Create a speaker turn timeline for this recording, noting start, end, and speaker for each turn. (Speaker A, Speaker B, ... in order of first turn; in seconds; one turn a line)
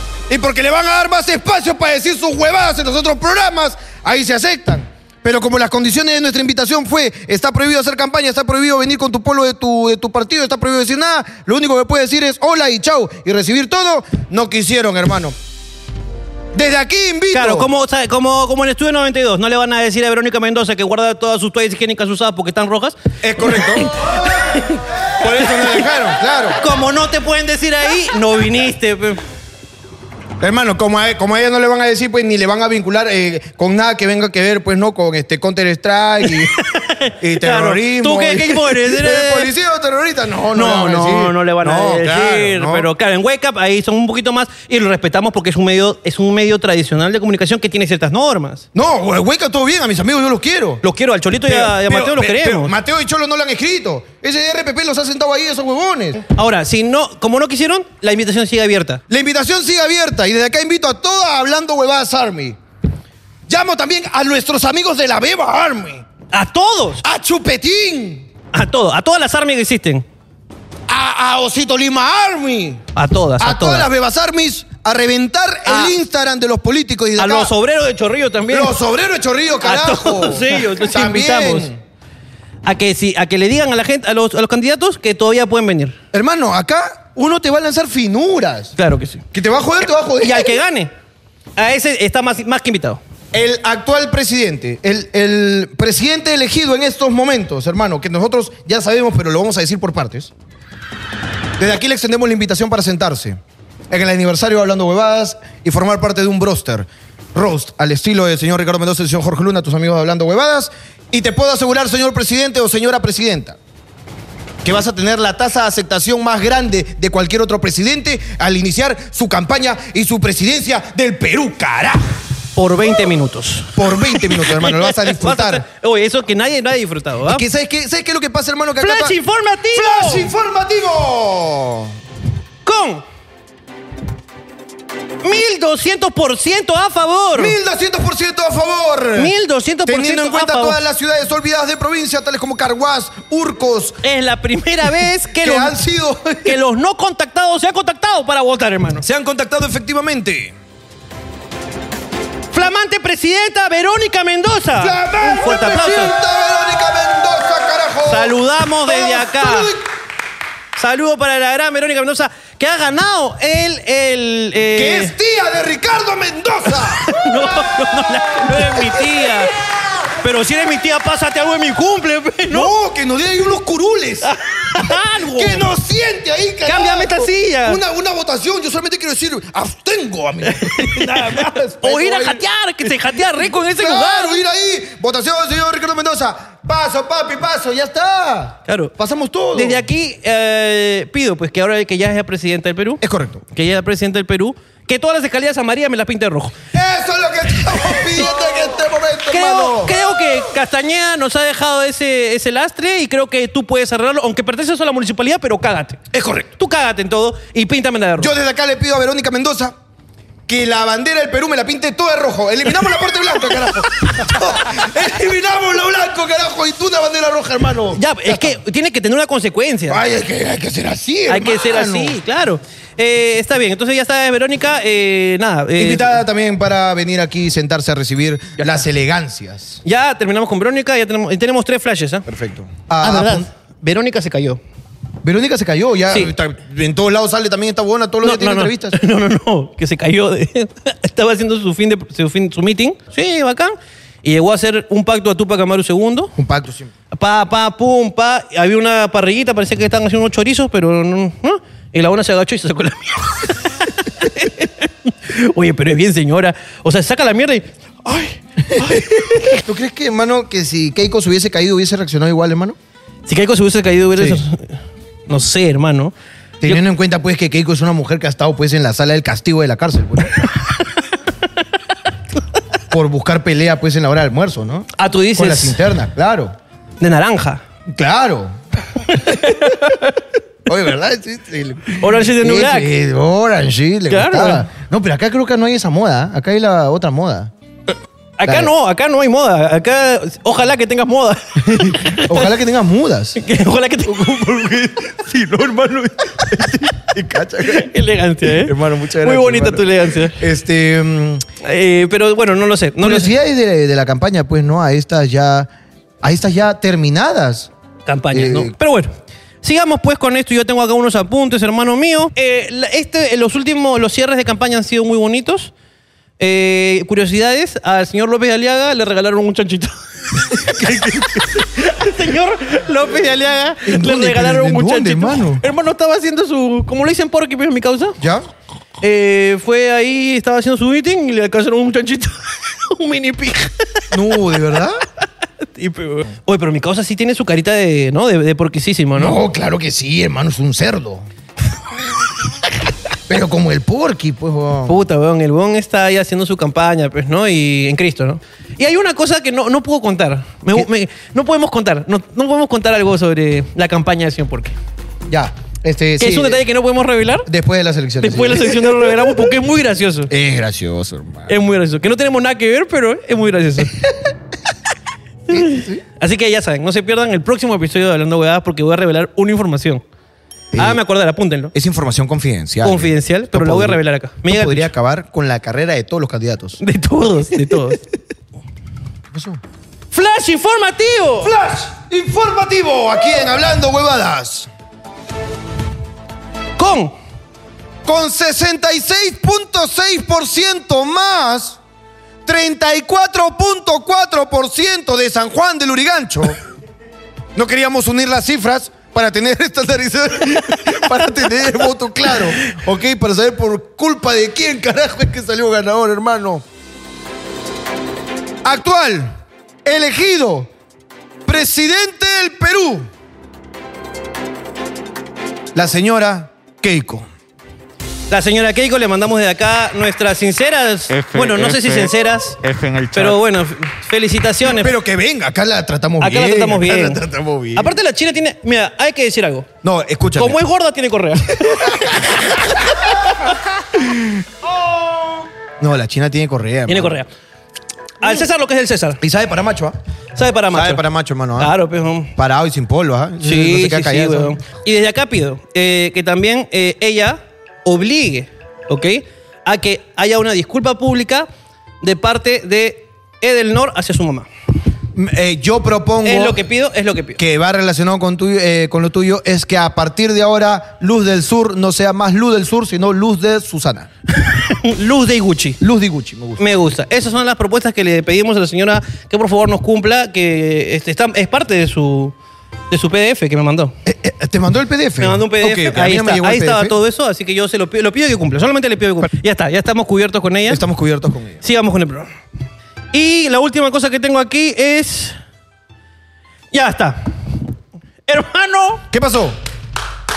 Speaker A: 0.3-15.3
Speaker A: 16.5-17.7
Speaker B: 17.3-24.8
Speaker A: 23.2-24.3
Speaker A: 25.2-26.6
Speaker B: 26.6-29.2
Speaker A: 30.4-36.5
Speaker B: 36.5-39.5
Speaker A: 37.2-42.9
Speaker B: 40.5-48.6
Speaker A: 48.7-50.8
Speaker B: 50.8-52.7
Speaker A: 51.4-56.2
Speaker B: 56.3-59.0
Speaker A: 59.1-62.6
Speaker A: 63.5-66.0
Speaker B: 66.3-67.0
Speaker A: 67.0-68.3
Speaker B: 68.5-70.0
Speaker A: 70.9-72.8
Speaker B: 72.9-73.9
Speaker A: 73.4-77.5
Speaker B: 75.7-75.9
Speaker B: 77.2-78.7
Speaker A: 78.5-81.8
Speaker B: 79.6-81.7
Speaker B: 82.6-86.0
Speaker A: 86.1-88.7
Speaker B: 88.8-89.2
Speaker A: 89.3-90.6
Speaker B: 90.2-90.9
Speaker B: 91.6-93.0
Speaker A: 93.3-100.3
Speaker A: 101.6-103.4
Speaker A: 103.9-113.6
Speaker A: 114.6-122.1
Speaker B: 122.5-127.4
Speaker A: 123.7-125.6
Speaker A: 127.2-129.2
Speaker B: 128.8-130.3
Speaker A: 129.7-131.9
Speaker B: 132.6-133.0
Speaker B: 135.2-137.5
Speaker A: 137.3-139.3
Speaker B: 139.1-140.8
Speaker A: 139.8-144.0
Speaker B: 144.0-145.8
Speaker A: 145.3-146.6
Speaker B: 146.4-149.0
Speaker A: 149.0-150.5
Speaker B: 152.5-156.1
Speaker A: 154.8-159.8
Speaker B: 158.1-159.7
Speaker B: 160.8-165.1
Speaker A: 164.7-167.7
Speaker B: 167.0-169.5
Speaker A: 168.2-169.4
Speaker B: 170.2-172.7
Speaker A: 172.5-189.8
Speaker B: 174.2-175.7
Speaker B: 176.7-177.8
Speaker B: 180.4-184.4
Speaker B: 188.7-188.9
Speaker B: 189.5-196.6
Speaker A: 193.0-193.4
Speaker A: 196.7-200.0
Speaker B: 199.3-206.0
Speaker A: 206.1-206.5
Speaker B: 206.6-208.3
Speaker A: 208.2-209.8
Speaker A: 210.5-218.6
Speaker B: 217.9-220.0
Speaker A: 219.9-222.2
Speaker B: 221.3-226.2
Speaker A: 225.8-229.8
Speaker B: 229.8-232.2
Speaker A: 232.3-233.5
Speaker B: 233.0-234.6
Speaker A: 235.2-239.0
Speaker B: 238.2-246.3
Speaker A: 246.4-246.9
Speaker B: 247.1-259.6
Speaker A: 258.6-262.8
Speaker B: 263.3-264.8
Speaker A: 264.1-264.4
Speaker B: 265.3-266.1
Speaker A: 266.6-270.5
Speaker A: 272.9-276.5
Speaker B: 274.9-275.8
Speaker B: 277.0-277.6
Speaker A: 277.9-278.6
Speaker B: 279.1-280.2
Speaker A: 279.1-279.7
Speaker A: 280.6-287.5
Speaker B: 281.9-282.9
Speaker B: 284.1-284.6
Speaker B: 288.4-292.5
Speaker A: 288.4-288.7
Speaker A: 291.6-293.4
Speaker B: 293.4-295.0
Speaker A: 294.2-301.4
Speaker B: 297.6-300.4
Speaker B: 301.6-303.3
Speaker A: 303.0-305.7
Speaker A: 306.2-307.7
Speaker B: 308.1-315.7
Speaker A: 308.3-308.7
Speaker B: 316.4-328.2
Speaker A: 320.6-321.6
Speaker A: 323.8-325.6
Speaker A: 328.2-328.5
Speaker B: 329.0-334.0
Speaker A: 334.1-335.0
Speaker B: 335.6-339.4
Speaker A: 339.1-341.3
Speaker A: 343.3-344.9
Speaker B: 344.9-354.7
Speaker A: 355.3-356.6
Speaker B: 356.2-357.5
Speaker A: 357.4-359.5
Speaker B: 358.2-360.3
Speaker A: 360.3-361.6
Speaker B: 361.5-364.0
Speaker A: 365.5-366.0
Speaker B: 365.5-370.0
Speaker A: 370.7-371.0
Speaker B: 370.8-371.7
Speaker A: 371.7-376.8
Speaker B: 372.8-374.9
Speaker B: 376.8-378.0
Speaker A: 379.3-379.6
Speaker B: 380.1-381.5
Speaker A: 381.4-384.7
Speaker B: 386.8-387.1
Speaker A: 388.0-391.8
Speaker A: 392.4-396.6
Speaker A: 397.5-406.6
Speaker A: 408.6-409.3
Speaker A: 409.8-410.7
Speaker A: 411.4-413.1
Speaker A: 415.7-417.3
Speaker B: 418.3-422.6
Speaker C: 421.1-423.4
Speaker B: 423.1-424.9
Speaker A: 424.7-427.9
Speaker B: 426.2-427.2
Speaker B: 427.7-429.7
Speaker A: 429.8-430.6
Speaker B: 430.4-433.4
Speaker A: 431.6-432.4
Speaker A: 433.9-434.4
Speaker A: 435.8-437.2
Speaker B: 436.9-437.3
Speaker B: 438.2-439.2
Speaker A: 439.2-440.0
Speaker B: 440.4-441.0
Speaker A: 440.7-441.7
Speaker B: 441.6-442.3
Speaker A: 442.4-444.6
Speaker B: 443.4-451.5
Speaker B: 452.0-454.5
Speaker A: 455.1-456.6
Speaker B: 456.2-457.4
Speaker A: 457.4-464.1
Speaker B: 464.4-465.8
Speaker A: 465.8-466.6
Speaker B: 466.6-472.3
Speaker B: 472.9-473.9
Speaker A: 474.1-476.9
Speaker B: 475.2-480.8
Speaker A: 480.7-481.6
Speaker B: 481.6-482.3
Speaker B: 483.1-485.4
Speaker B: 486.7-487.3
Speaker B: 488.3-489.0
Speaker A: 489.1-489.6